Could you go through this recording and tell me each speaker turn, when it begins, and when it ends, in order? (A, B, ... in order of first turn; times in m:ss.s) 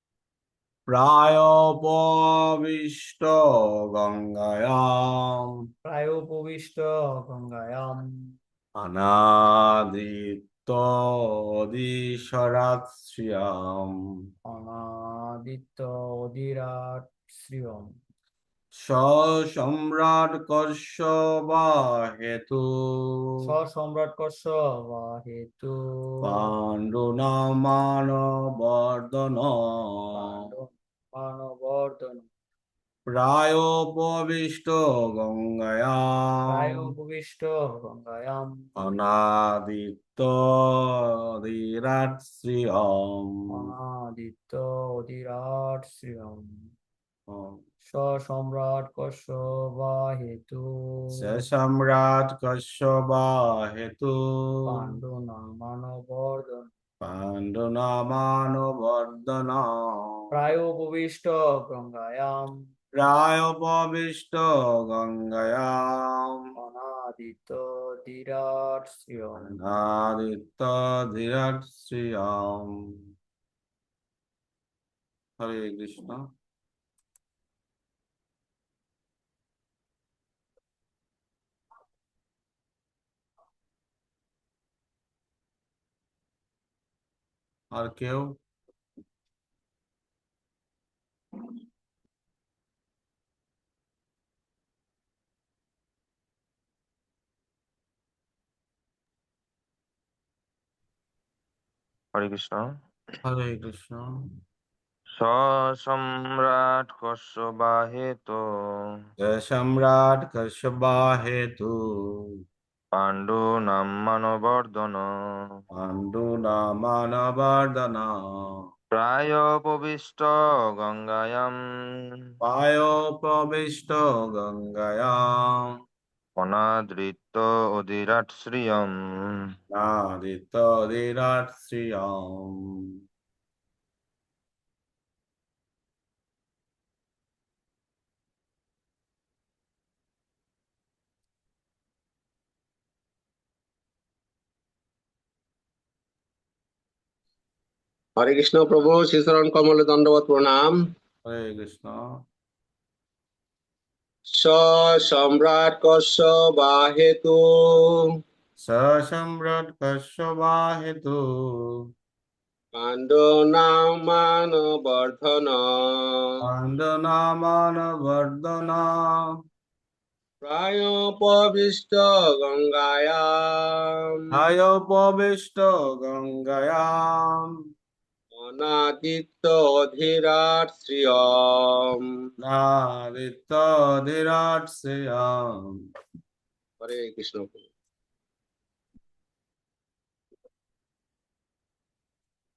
0:00.9-0:05.5 A
0:05.8-0:08.3 B
0:08.8-0:13.9 A
0:14.5-0:17.9 B
0:18.8-0:23.4 A
0:23.4-0:26.5 B
0:26.2-0:30.4 A
0:30.1-0:32.3 B
0:33.1-0:36.9 A
0:36.5-0:38.6 B
0:38.8-0:43.4 A
0:43.5-0:46.6 B
0:47.3-0:47.6 A
0:47.8-0:51.3 B
0:51.1-0:54.9 A
0:54.7-0:56.7 B
0:57.0-0:59.6 A
1:00.3-1:02.6 B
1:03.0-1:06.4 A
1:06.6-1:09.6 B
1:09.5-1:12.7 A
1:15.4-1:16.2 A
1:27.7-1:28.3 A
1:42.1-1:42.7 C
1:43.2-1:44.0 A
1:45.2-1:48.4 C
1:49.2-1:51.7 A
1:53.0-1:55.0 C
1:55.7-1:58.1 A
1:58.9-2:01.5 C
2:02.4-2:05.6 A
2:06.4-2:09.5 C
2:09.7-2:12.7 A
2:28.2-2:30.8 D
2:31.2-2:32.0 A
2:34.4-2:38.0 D
2:38.6-2:41.8 A
2:42.7-2:46.3 D
2:46.4-2:49.2 A
2:50.4-2:53.8 D
2:54.3-2:57.5 A
2:58.3-3:02.0 D
3:02.4-3:05.7 A
3:06.8-3:07.7 D